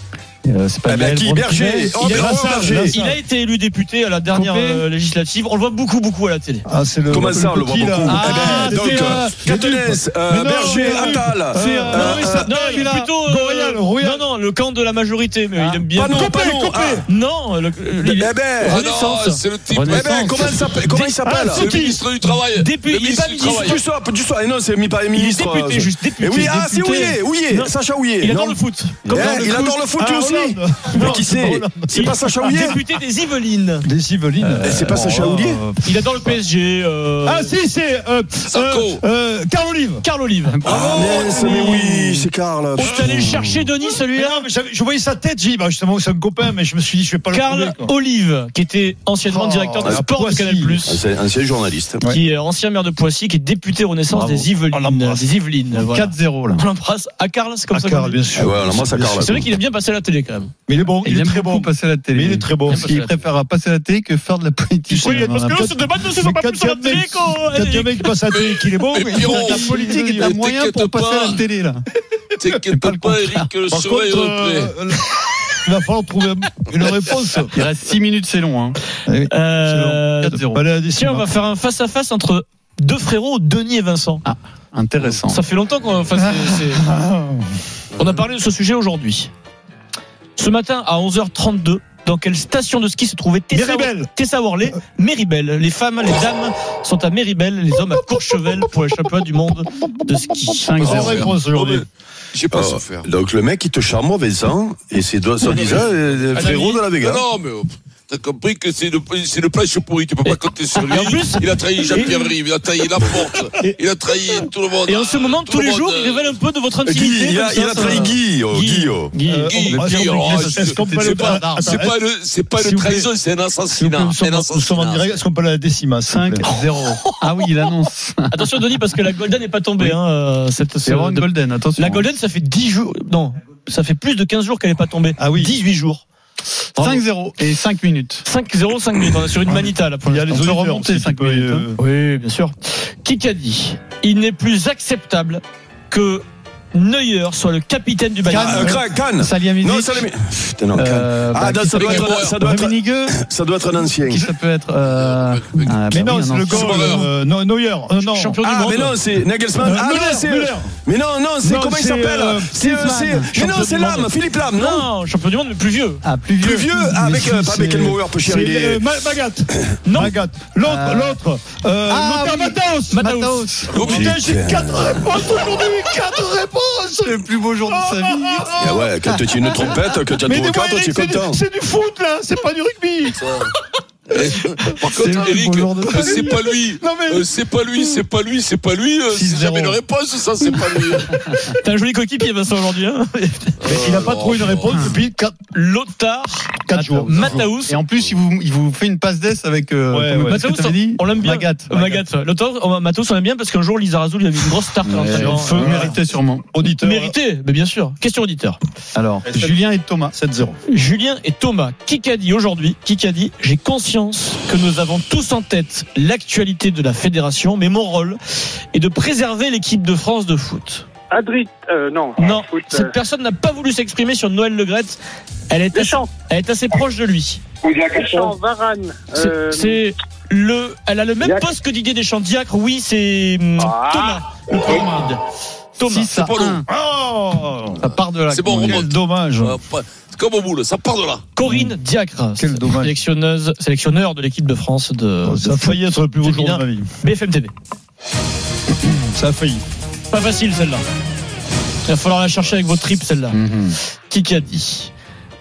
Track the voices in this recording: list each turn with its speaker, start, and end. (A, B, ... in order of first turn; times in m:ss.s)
0:00.4-0:01.9 A
0:00.8-0:03.0 B
0:02.0-0:03.2 C
0:02.0-0:06.6 D
0:04.3-0:04.8 A
0:06.7-0:14.3 C
0:07.1-0:12.6 B
0:08.1-0:09.4 A
0:11.5-0:13.1 A
0:11.9-0:19.4 D
0:15.9-0:17.0 B
0:16.1-0:17.0 C
0:18.1-0:18.8 B
0:18.6-0:20.6 E
0:19.7-0:20.4 A
0:19.9-0:21.7 B
0:20.8-0:22.0 D
0:21.2-0:22.0 C
0:21.5-0:23.8 E
0:22.5-0:23.8 D
0:23.6-0:28.6 B
0:25.1-0:30.1 D
0:29.1-0:32.8 B
0:29.1-0:32.7 C
0:30.9-0:31.2 D
0:31.9-0:33.9 D
0:33.8-0:36.3 C
0:34.5-0:35.6 B
0:35.8-0:37.5 D
0:37.2-0:40.0 C
0:38.4-0:39.0 E
0:40.0-0:40.6 D
0:40.5-0:41.3 A
0:40.6-0:43.6 B
0:41.2-0:41.6 C
0:42.8-0:44.4 D
0:43.9-0:47.9 C
0:47.3-0:51.0 D
0:49.3-0:50.8 C
0:50.8-0:52.1 B
0:52.0-0:58.2 D
0:54.1-0:54.5 A
0:54.7-0:55.3 C
0:55.8-0:56.6 A
0:57.7-0:59.2 C
0:58.4-0:59.5 B
0:59.1-1:00.5 D
1:00.7-1:02.9 C
1:01.0-1:05.7 A
1:02.7-1:03.1 D
1:04.9-1:08.1 D
1:05.0-1:10.3 C
1:08.2-1:11.4 E
1:09.5-1:11.8 A
1:12.4-1:14.8 E
1:12.7-1:13.5 A
1:13.7-1:17.6 C
1:17.6-1:20.6 A
1:19.3-1:20.4 D
1:20.4-1:21.2 C
1:20.9-1:24.3 D
1:24.3-1:25.4 A
1:25.2-1:26.8 D
1:26.9-1:27.5 C
1:28.0-1:29.3 D
1:30.4-1:41.1 D
1:33.5-1:34.1 C
1:40.5-1:41.8 C
1:40.7-1:41.2 A
1:40.8-1:43.1 E
1:42.5-1:47.2 B
1:45.5-1:56.4 E
1:46.4-1:46.8 D
1:50.3-1:52.2 D
1:54.9-1:59.8 D
1:56.8-1:59.2 B
1:57.8-1:58.2 E
1:59.2-2:02.0 C
1:59.4-2:05.2 E
2:00.3-2:01.6 A
2:02.5-2:03.1 C
2:03.8-2:06.5 C
2:06.1-2:08.4 A
2:08.3-2:16.0 D
2:10.8-2:12.1 A
2:15.2-2:15.5 C
2:16.8-2:17.0 D
2:16.8-2:18.2 A
2:18.2-2:20.4 D
2:19.5-2:21.8 C
2:20.3-2:21.6 A
2:21.8-2:28.8 D
2:28.3-2:30.1 A
2:28.3-2:34.3 B
2:30.7-2:33.2 A
2:31.7-2:32.4 E
2:34.1-2:37.1 A
2:34.8-2:36.0 E
2:35.9-2:38.3 C
2:36.5-2:37.1 E
2:38.1-2:39.0 D
2:38.4-2:44.9 B
2:39.6-2:40.7 C
2:41.4-2:43.7 C
2:42.6-2:43.4 A
2:43.6-2:44.0 D
2:44.5-2:46.0 D
2:46.0-2:48.0 A
2:46.4-2:49.0 B
2:48.2-2:58.9 C
2:49.8-2:50.1 D
2:50.7-2:51.2 A
2:51.9-2:53.7 A
2:52.9-2:53.4 D
2:53.7-2:54.1 E
2:53.9-2:55.1 B
2:57.0-2:58.5 A
2:58.5-3:01.4 B
3:00.2-3:03.2 C
3:03.2-3:03.5 E
3:04.1-3:11.2 E
3:05.0-3:06.1 A
3:05.9-3:08.0 C
3:09.1-3:09.8 A
3:11.4-3:13.6 D
3:13.6-3:15.0 E
3:13.7-3:15.4 C
3:15.5-3:17.8 D
3:16.7-3:17.6 C
3:17.0-3:21.8 A
3:19.9-3:20.4 C
3:20.2-3:26.0 D
3:21.8-3:22.0 C
3:24.8-3:26.4 A
3:25.5-3:27.2 C
3:26.6-3:28.6 D
3:29.0-3:30.1 A
3:29.2-3:30.6 C
3:30.7-3:40.9 D
3:41.1-3:42.9 F
3:42.2-3:47.4 D
3:45.7-3:46.1 F
3:47.6-3:49.9 F
3:49.2-3:55.2 D
3:51.2-3:51.6 F
3:53.6-3:54.8 F
3:55.8-3:56.2 D
3:55.9-3:56.6 A
3:56.2-3:56.6 E
3:56.7-3:57.8 C
3:57.8-4:01.3 E
3:57.8-3:58.8 A
3:58.7-3:59.6 C
4:01.4-4:07.5 D
4:02.4-4:03.0 C
4:05.2-4:06.9 C
4:09.1-4:09.6 C
4:10.1-4:10.8 D
4:11.8-4:13.4 D
4:13.3-4:13.8 A
4:14.1-4:14.9 D